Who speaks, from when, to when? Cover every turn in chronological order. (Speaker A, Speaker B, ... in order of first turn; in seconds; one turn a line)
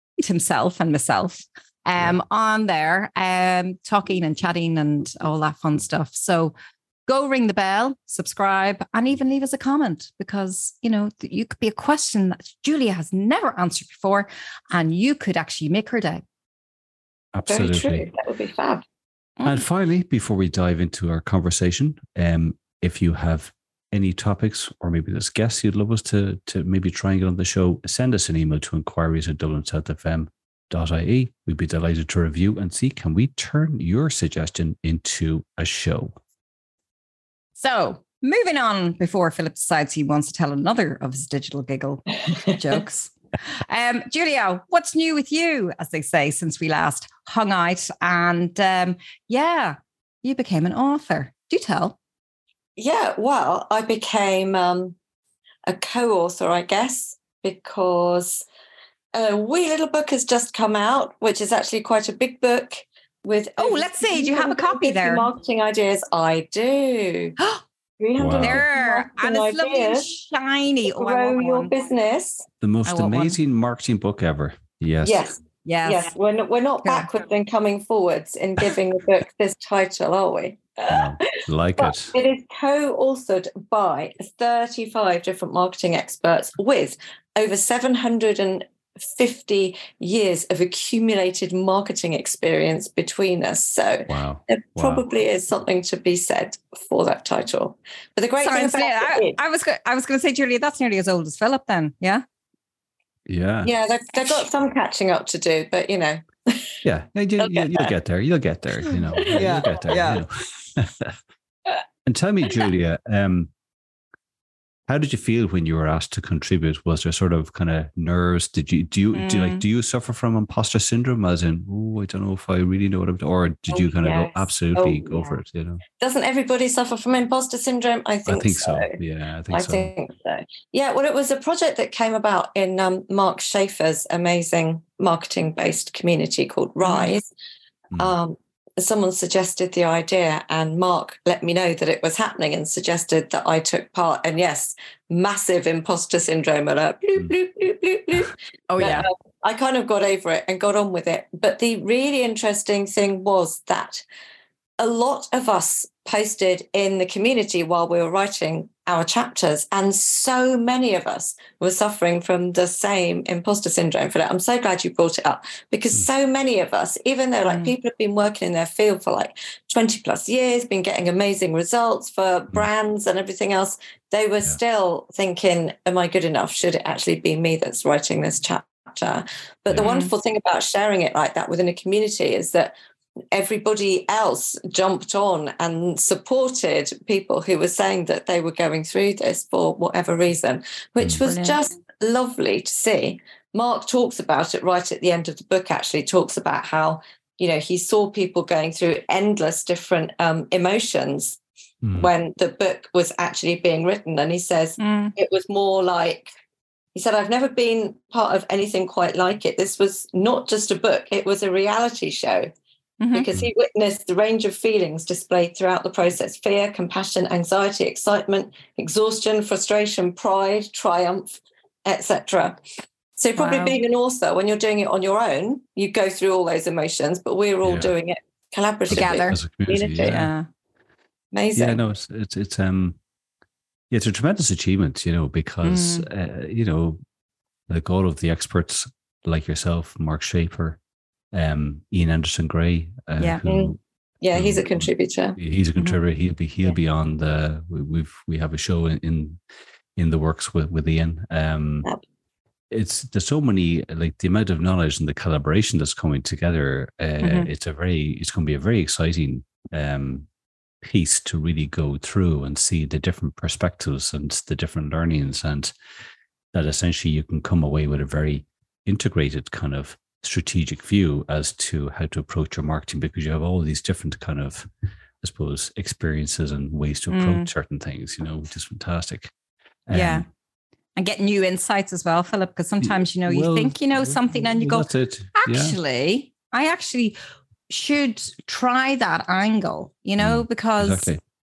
Speaker A: 0.2-6.5
Speaker A: 7.1-16.2
Speaker B: 17.3-18.1
Speaker C: 17.5-18.8
Speaker B: 19.4-36.1
Speaker A: 37.5-52.0
Speaker C: 52.8-54.9
Speaker C: 55.7-58.4
Speaker C: 59.1-67.4
Speaker A: 63.6-65.3
Speaker C: 68.0-70.1
Speaker B: 68.2-68.6
Speaker A: 68.4-71.7
Speaker C: 70.9-72.5
Speaker B: 72.6-75.2
Speaker A: 72.8-73.4
Speaker C: 75.0-99.4
Speaker A: 75.6-76.1
Speaker B: 80.9-82.1
Speaker B: 94.1-95.0
Speaker A: 98.4-102.2
Speaker B: 103.3-103.7
Speaker C: 103.6-106.8
Speaker B: 106.8-111.1
Speaker C: 107.4-107.9
Speaker C: 109.2-109.5
Speaker A: 109.2-110.2
Speaker B: 112.0-113.5
Speaker B: 114.9-125.8
Speaker A: 119.1-119.6
Speaker C: 123.7-125.3
Speaker C: 126.0-129.0
Speaker B: 128.2-129.9
Speaker C: 129.5-137.3
Speaker A: 136.8-137.1
Speaker C: 138.0-154.0
Speaker A: 148.7-149.1
Speaker B: 148.8-149.0
Speaker C: 154.8-182.7
Speaker A: 167.4-167.7
Speaker A: 179.8-180.1
Speaker C: 183.3-201.4
Speaker A: 191.2-191.6
Speaker B: 201.8-202.1
Speaker C: 201.9-206.3
Speaker A: 204.8-205.1
Speaker C: 206.9-212.5
Speaker A: 213.0-213.2
Speaker C: 213.1-222.6
Speaker C: 223.2-230.2
Speaker A: 223.4-223.8
Speaker B: 227.6-227.9
Speaker B: 228.9-230.3
Speaker A: 228.9-229.4
Speaker A: 230.0-230.5
Speaker C: 231.3-231.8
Speaker B: 231.6-233.0
Speaker B: 233.9-237.0
Speaker A: 235.6-236.1
Speaker B: 237.7-240.8
Speaker B: 241.3-243.8
Speaker C: 243.4-245.4
Speaker B: 244.3-249.4
Speaker B: 249.9-251.9
Speaker B: 252.7-260.3
Speaker A: 257.2-257.5
Speaker B: 260.8-265.7
Speaker B: 266.5-274.7
Speaker B: 275.2-279.3
Speaker A: 277.1-277.5
Speaker B: 279.9-280.2
Speaker A: 279.9-280.2
Speaker A: 280.9-287.1
Speaker B: 282.8-285.8
Speaker A: 287.7-291.1
Speaker B: 290.2-291.2